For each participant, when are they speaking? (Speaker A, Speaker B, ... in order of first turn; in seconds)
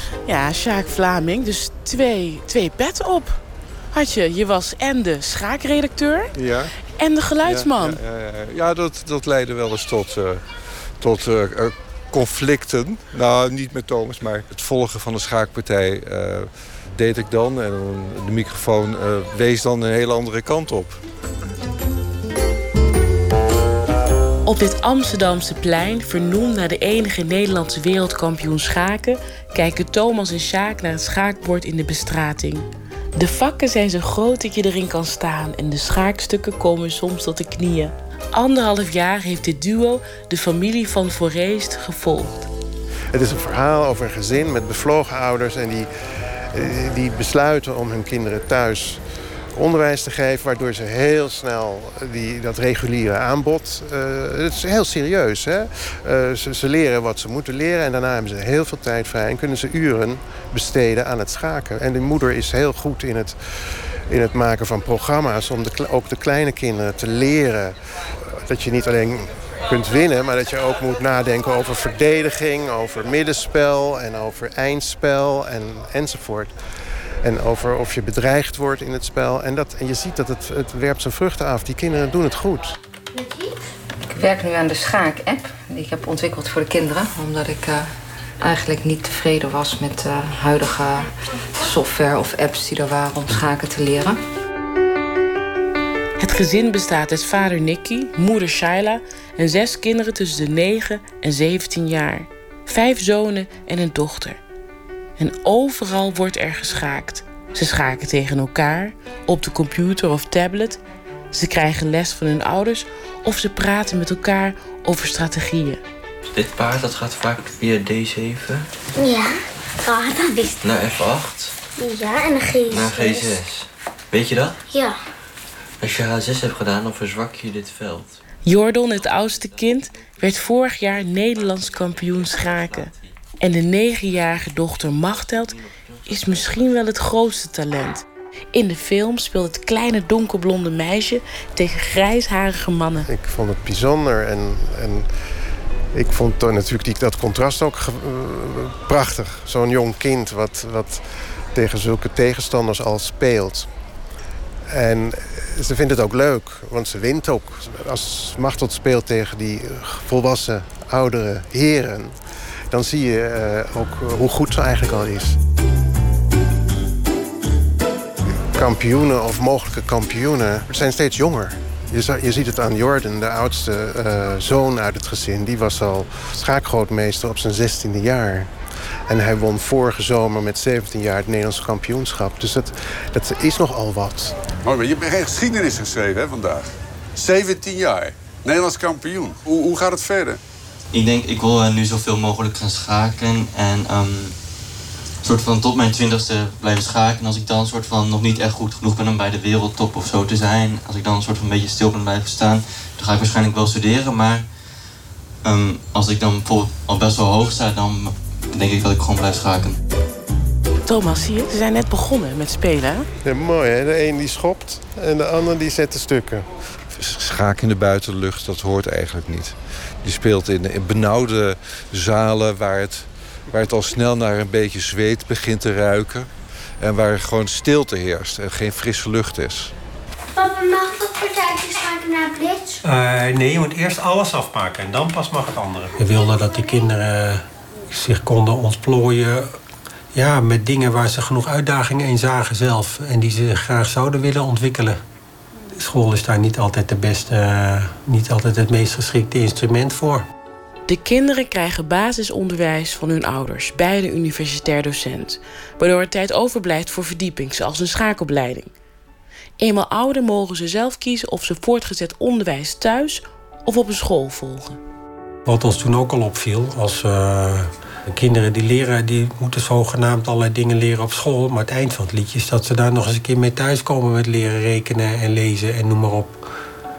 Speaker A: 0.3-6.3, 7.0-8.0, 24.4-42.5, 96.2-104.4, 105.2-115.8, 128.4-143.1, 210.8-213.1, 250.9-258.7, 259.6-264.8
Speaker B: 7.4-21.0, 216.9-229.7
Speaker C: 43.1-45.9, 46.5-49.0, 49.5-76.6, 77.2-82.8, 143.1-145.1, 145.9-153.7, 154.7-162.2, 162.7-165.4, 168.5-178.5, 179.1-184.5, 213.2-216.5
Speaker D: 84.1-87.9, 88.4-94.2
Speaker E: 116.3-118.7, 120.6-121.5, 122.7-124.6, 125.8-128.2, 129.0-133.1, 135.4-136.6, 190.9-194.4, 195.2-204.5, 205.4-209.8
Speaker F: 119.0-120.6, 121.8-123.4, 124.7-125.0, 230.4-232.8
Speaker G: 184.7-186.6, 187.2-190.3
Speaker H: 232.8-239.5, 240.1-245.0, 245.7-250.3, 265.5-276.4